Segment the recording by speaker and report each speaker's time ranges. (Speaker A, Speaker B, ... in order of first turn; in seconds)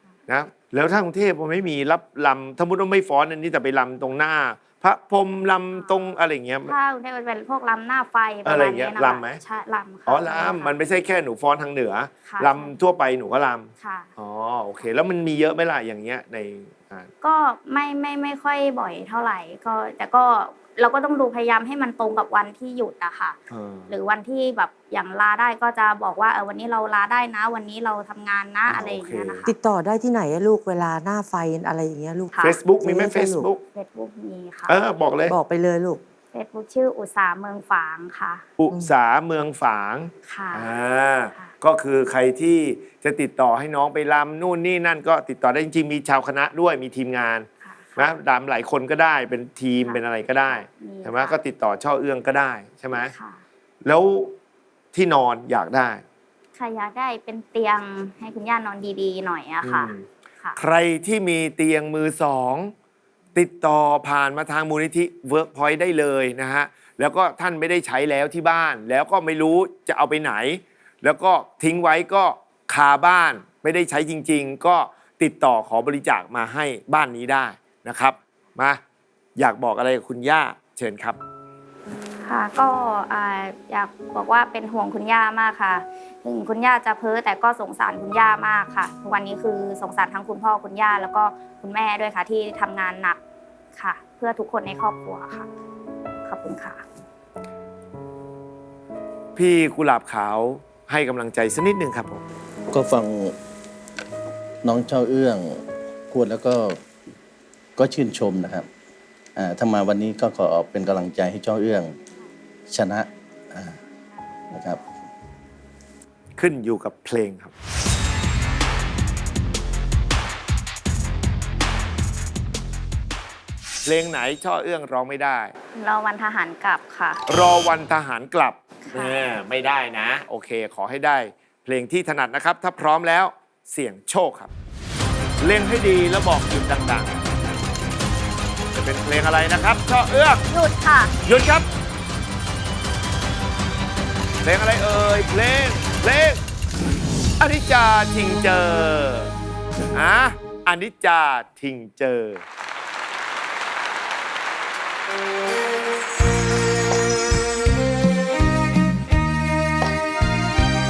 Speaker A: 0.3-6.7, 8.4-9.4, 10.1-17.1, 23.5-23.9, 28.7-29.5, 32.4-33.6, 34.7-35.3, 38.6-53.1, 53.8-54.3, 54.9-56.0, 59.6-60.0, 60.6-62.7, 63.3-78.8, 79.3-81.2, 99.3-102.2, 116.4-117.5, 123.8-125.5, 127.3-134.5, 135.4-137.2, 138.7-140.5, 141.2-141.7, 144.4-146.4, 147.4-149.3, 149.9-152.4
Speaker B: 5.7-10.8, 12.3-12.7, 13.8-14.1, 17.2-23.4, 23.9-29.5, 32.3-32.6, 33.8-34.8, 36.3-38.4, 40.3-40.7, 47.6-48.1, 49.8-51.4, 53.0-53.4, 56.5-60.6, 82.2-93.2, 93.8-95.5, 96.2-96.8, 125.8-127.2, 128.9-129.2, 140.5-141.1
Speaker C: 29.5-33.5, 35.3-36.0
Speaker D: 102.7-103.3, 104.6-106.8, 107.8-108.7, 109.4-112.0, 112.7-113.8, 114.5-114.9